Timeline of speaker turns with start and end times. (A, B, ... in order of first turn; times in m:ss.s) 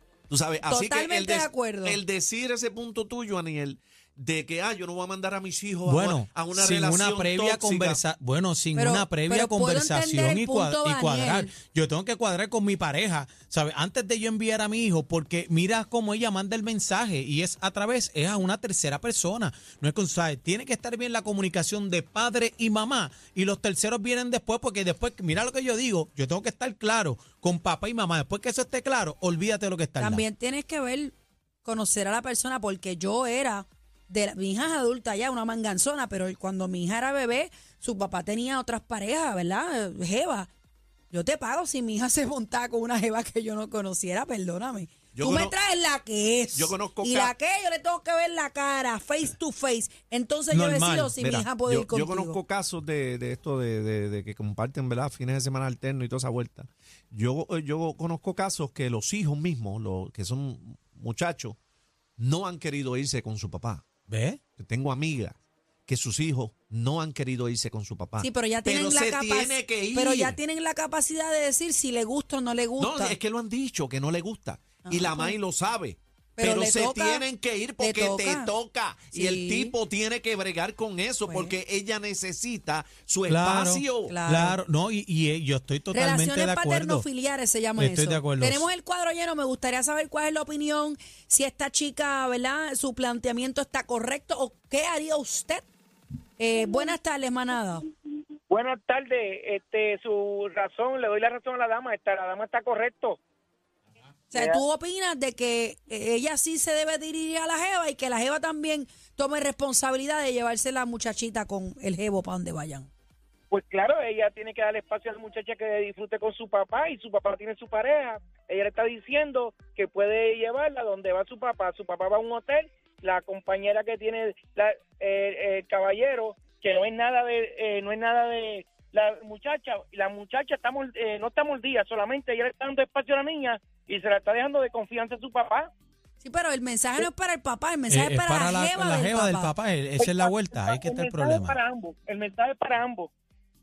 0:00.3-0:08.0 A
0:00.6-0:02.0 B
0:05.8-0:30.2 C
0:08.7-0:11.5 B
0:30.0-0:40.5 B
0:41.1-0:52.4 B
0:45.1-0:45.6 A
0:46.5-0:47.3 A
0:50.5-0:51.2 C
0:51.2-1:01.6 A
1:02.2-1:03.8 A
1:04.1-1:04.4 C
1:04.6-1:05.3 A
1:05.9-1:10.4 A
1:08.2-1:13.2 B
1:12.8-1:24.2 A
1:14.8-1:15.4 B
1:16.4-1:17.3 B
1:17.8-1:18.5 B
1:19.1-1:19.7 B
1:21.3-1:21.5 B
1:23.3-1:27.0 C
1:24.1-1:24.6 B
1:25.9-1:35.7 B
1:27.8-1:28.7 C
1:36.4-1:37.8 B
1:38.5-1:43.2 D
1:44.3-1:52.9 B
1:44.3-1:44.6 D
1:53.5-2:15.7 D
2:16.2-2:19.5 B
2:17.9-2:21.6 C
2:20.0-2:23.1 D